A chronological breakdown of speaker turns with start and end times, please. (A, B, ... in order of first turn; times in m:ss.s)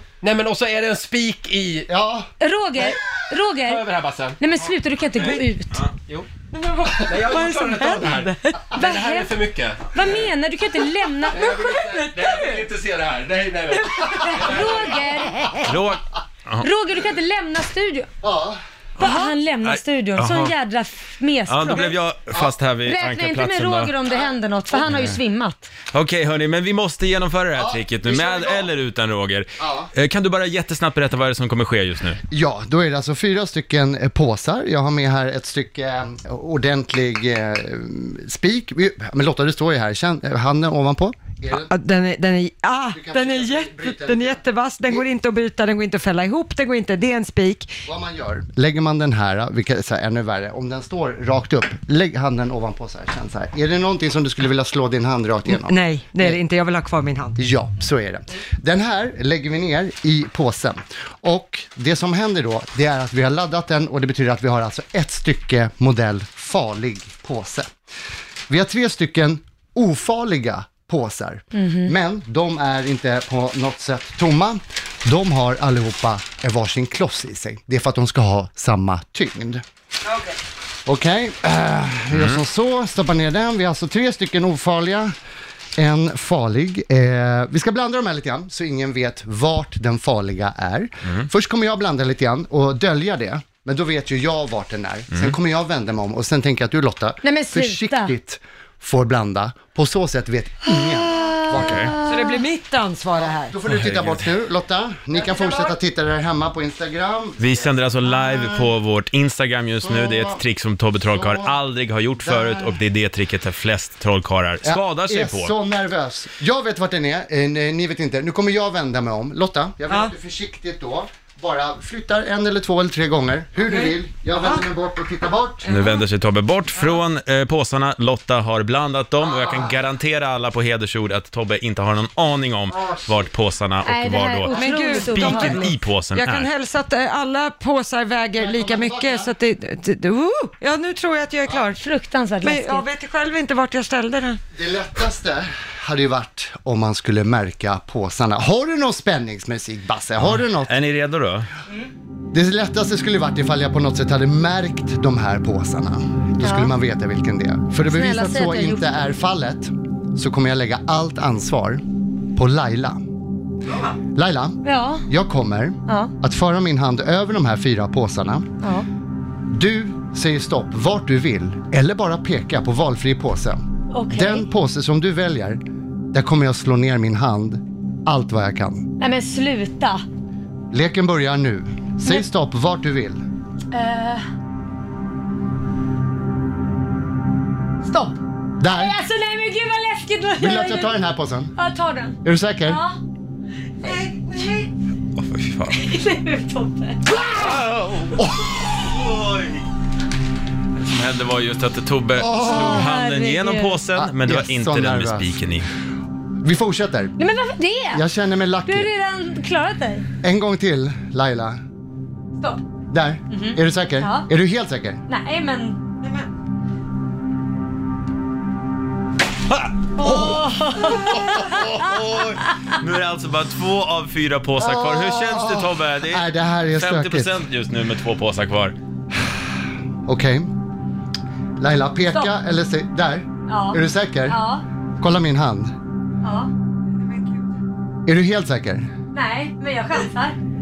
0:00.2-0:01.9 A
0:01.9-0:02.3 B
0:02.4-0:03.8 C
0:03.6-0:04.4 A
0:04.4-0:05.8 C
0:05.2-0:05.9 D
0:06.5-0:08.8 E
0:07.0-0:10.0 A
0:08.7-0:11.4 C
0:10.8-0:12.6 E
0:11.3-0:15.1 A
0:14.0-0:15.7 E
0:14.2-0:15.4 C
0:15.6-0:16.7 D
0:16.6-0:18.1 C
0:18.2-0:18.6 B
0:19.0-0:20.5 D
0:19.0-0:22.0 C
0:21.5-0:23.9 D
0:22.8-0:25.7 C
0:24.8-0:25.2 D
0:25.9-0:32.2 D
0:27.6-0:28.7 B
0:29.6-0:29.9 B
0:32.3-0:41.7 B
0:41.6-0:47.7 E
0:42.9-0:45.1 B
0:47.8-0:56.4 B
0:55.5-0:57.4 E
0:57.4-1:07.7 B
1:08.5-1:19.6 B
1:11.5-1:11.9 C
1:20.1-1:20.4 E
1:20.9-1:25.1 B
1:22.1-1:22.4 D
1:25.8-1:42.0 B
1:35.1-1:35.4 D
1:37.2-1:38.1 C
1:41.3-1:42.4 C
1:41.5-1:42.0 D
1:42.0-1:43.6 E
1:43.2-1:48.7 B
1:43.7-1:44.3 D
1:47.4-1:55.5 D
1:49.8-1:50.4 B
1:51.1-1:51.6 B
1:52.2-1:52.8 B
1:54.6-2:05.7 B
2:03.7-2:04.6 E
2:05.7-2:16.5 D
2:05.7-2:06.0 E
2:09.2-2:09.8 B
2:12.7-2:13.3 B
2:13.8-2:15.7 C
2:14.5-2:21.8 E
2:18.4-2:19.3 B
2:21.7-2:22.9 C
2:22.4-2:24.4 E
2:24.6-2:30.8 B
2:30.4-2:31.5 D
2:32.3-2:41.8 B
2:36.4-2:36.7 C
2:37.8-2:39.1 C
2:42.4-2:43.0 B
2:44.2-2:48.5 B
2:44.6-2:45.0 C
2:45.9-2:46.1 C
2:49.5-2:55.6 B
2:53.9-2:54.5 C
2:56.1-2:58.8 B
2:59.0-3:00.0 C
3:00.7-3:03.2 B
3:03.7-3:04.2 C
3:07.8-3:11.0 C
3:08.6-3:09.0 B
3:10.4-3:11.5 B
3:11.6-3:13.0 C
3:12.2-3:12.8 B
3:13.8-3:14.7 C
3:13.9-3:14.2 E
3:15.2-3:15.8 D
3:15.7-3:17.2 C
3:17.3-3:19.7 D
3:20.8-3:25.7 D
3:22.2-3:22.9 B
3:22.7-3:23.8 C
3:23.9-3:25.4 B
3:26.4-3:27.2 B
3:27.2-3:28.1 C
3:27.9-3:28.9 B
3:28.7-3:30.1 C
3:30.2-3:31.6 B
3:32.9-3:35.0 B
3:33.3-3:34.3 C
3:35.1-3:35.8 C
3:40.0-3:42.6 C
3:40.0-3:41.3 B
3:41.2-3:48.8 D
3:44.6-3:47.4 B
3:50.1-3:50.5 B
3:51.6-3:54.4 B
3:53.5-3:54.6 C
3:55.0-3:55.7 B
3:56.2-3:56.5 C
3:57.0-3:57.4 E
3:58.1-3:58.9 B
3:59.1-4:00.4 C